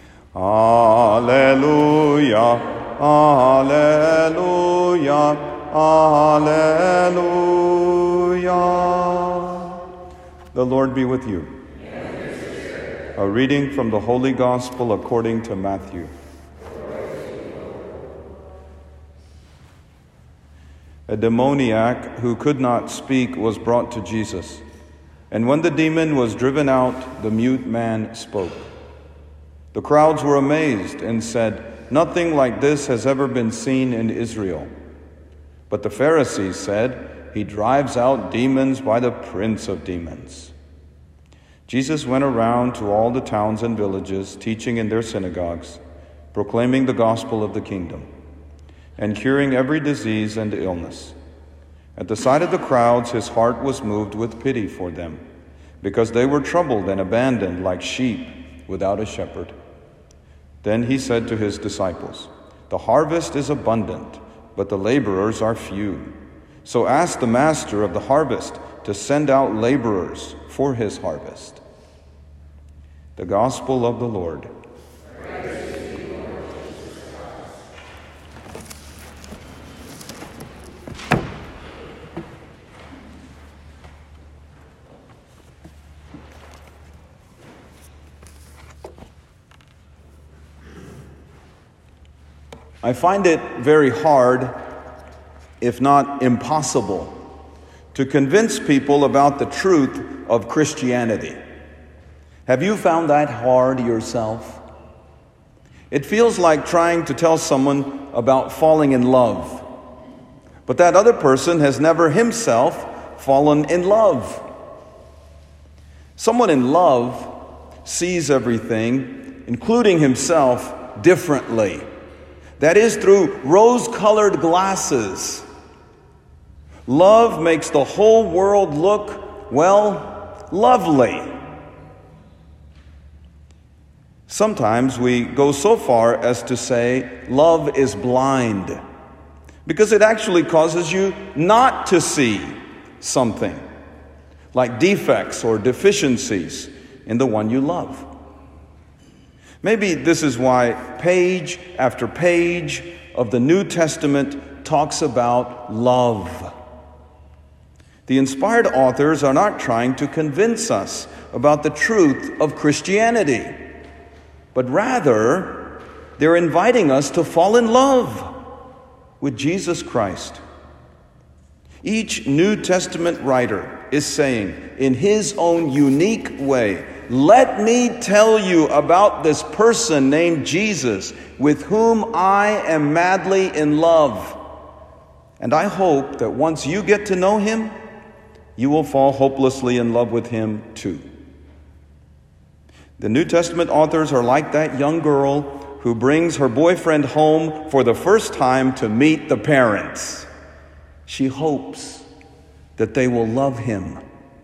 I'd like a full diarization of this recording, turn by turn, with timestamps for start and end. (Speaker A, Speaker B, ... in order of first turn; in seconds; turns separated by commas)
Speaker A: 0.3-9.8, Speaker A: 10.5-11.5, Speaker A: 13.2-16.1, Speaker A: 21.1-24.6, Speaker A: 25.3-28.6, Speaker A: 29.7-34.7, Speaker A: 35.7-40.5, Speaker A: 41.7-45.8, Speaker A: 46.3-48.1, Speaker A: 49.0-51.2, Speaker A: 52.0-55.2, Speaker A: 55.8-59.5, Speaker A: 60.6-66.1, Speaker A: 66.7-71.6, Speaker A: 73.2-74.5, Speaker A: 92.8-94.6, Speaker A: 95.6-97.1, Speaker A: 97.9-101.4, Speaker A: 102.5-104.6, Speaker A: 105.9-109.7, Speaker A: 110.7-114.5, Speaker A: 116.2-121.8, Speaker A: 122.6-125.5, Speaker A: 126.9-131.3, Speaker A: 134.3-138.8, Speaker A: 139.7-143.6, Speaker A: 144.5-148.1, Speaker A: 149.6-156.5, Speaker A: 158.1-163.6, Speaker A: 164.5-168.3, Speaker A: 169.2-170.4, Speaker A: 171.8-184.4, Speaker A: 185.4-187.7, Speaker A: 188.6-191.1, Speaker A: 193.0-200.3, Speaker A: 201.1-202.1, Speaker A: 202.8-204.0